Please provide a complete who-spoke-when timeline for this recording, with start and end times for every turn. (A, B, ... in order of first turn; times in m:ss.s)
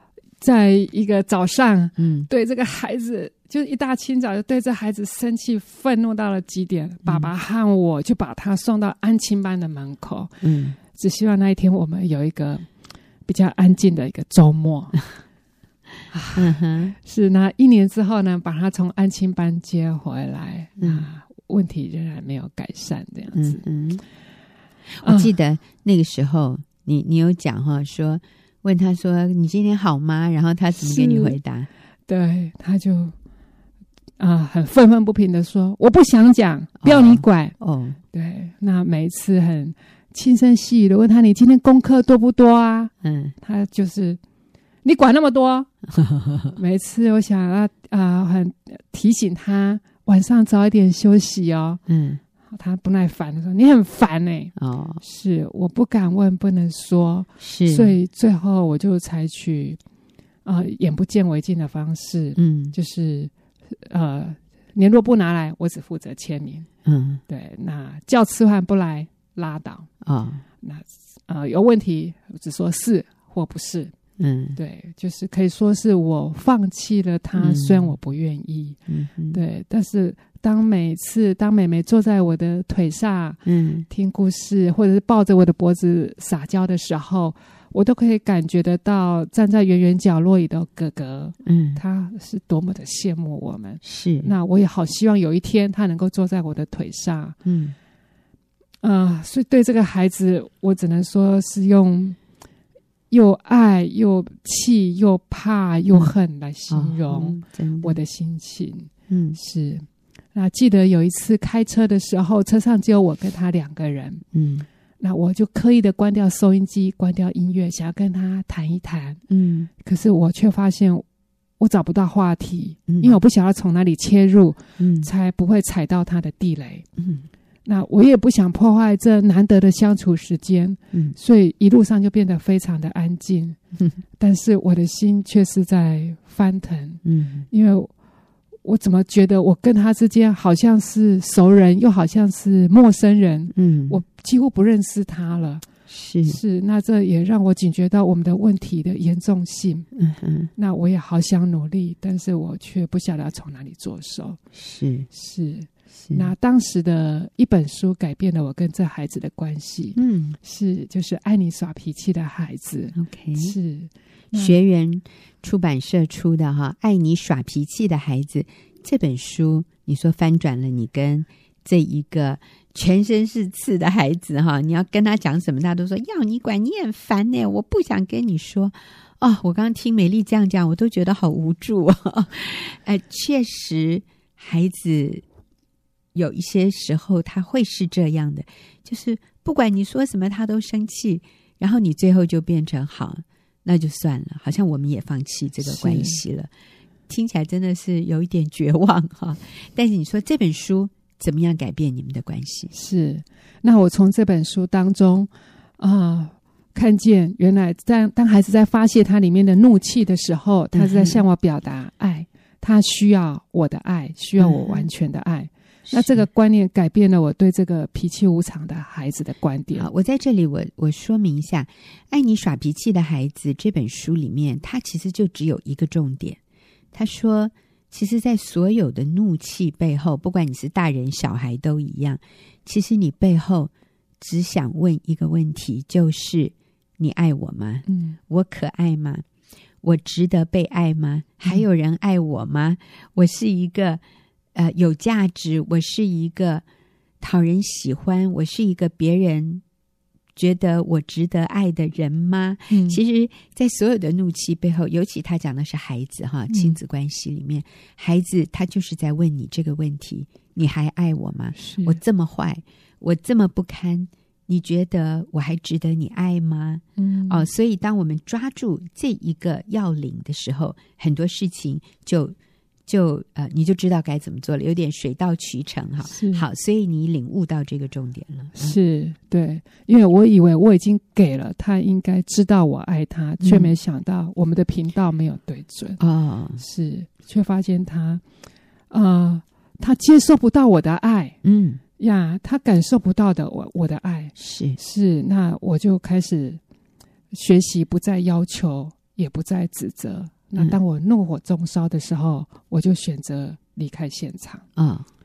0:00.4-0:12.7 A
0:02.0-0:02.3 B
0:10.4-0:10.8 B
0:13.2-0:15.0 A
0:16.1-0:23.6 A
0:16.3-0:17.0 B
0:20.8-0:21.0 B
0:23.3-0:24.0 B
0:25.0-0:31.7 B
0:25.0-0:25.3 A
0:30.8-0:31.4 A
0:32.1-0:33.1 A
0:34.2-0:37.5 A
0:36.8-0:38.0 B
0:38.1-0:44.2 A
0:43.0-0:43.4 B
0:44.8-0:45.7 A
0:45.9-0:46.6 B
0:46.6-0:51.8 A
0:51.9-0:52.2 B
0:52.5-0:59.8 A
0:54.6-0:55.0 B
0:57.4-0:57.9 B
1:00.4-1:06.7 A
1:02.4-1:02.7 B
1:06.8-1:07.2 B
1:07.3-1:09.9 A
1:10.0-1:10.4 B
1:10.6-1:13.9 A
1:14.2-1:14.6 B
1:14.6-1:18.8 A
1:17.4-1:17.9 B
1:18.9-1:19.4 B
1:19.3-1:37.4 A
1:23.4-1:23.9 B
1:31.4-1:31.8 B
1:33.8-1:34.3 B
1:37.4-1:37.7 B
1:38.8-1:42.2 A
1:43.1-1:54.2 A
1:46.7-1:48.0 B
1:49.1-1:49.4 B
1:54.3-1:54.6 B
1:55.0-1:59.2 A
1:59.3-1:59.7 B
1:59.8-2:01.0 A
2:01.6-2:06.8 A
2:02.9-2:03.2 B
2:04.8-2:05.1 B
2:07.0-2:07.3 B
2:07.6-2:13.6 A
2:14.2-2:17.9 A
2:17.0-2:17.5 B
2:18.6-2:25.6 A
2:23.5-2:24.0 B
2:25.9-2:26.4 B
2:26.2-2:29.9 A
2:29.9-2:30.5 B
2:30.6-2:34.4 A
2:34.5-2:35.1 B
2:35.1-2:44.6 A
2:36.0-2:36.3 B
2:39.9-2:40.4 B
2:43.0-2:43.5 B
2:44.3-3:05.2 B
3:06.1-3:16.5 B
3:15.6-3:16.2 A
3:17.1-3:22.7 B
3:22.7-3:39.9 A
3:30.7-3:31.2 B
3:34.4-3:34.8 B
3:35.9-3:36.2 B
3:39.7-3:46.4 B
3:46.9-3:59.2 B
3:57.9-3:58.2 A
3:59.8-4:04.0 B
4:04.5-4:06.6 B
4:07.2-4:09.6 B
4:10.4-4:32.3 B
4:12.7-4:13.0 A
4:16.5-4:16.8 A
4:21.6-4:22.0 A
4:27.0-4:27.5 A
4:32.9-4:38.8 B
4:36.1-4:36.4 A
4:38.5-4:46.0 A
4:43.4-4:43.7 B
4:46.0-4:46.6 B
4:46.6-4:48.2 A
4:48.9-4:51.4 A
4:51.4-4:51.8 B
4:52.0-4:56.6 A
4:54.4-4:54.8 B
4:57.3-5:04.6 A
5:04.8-5:05.0 B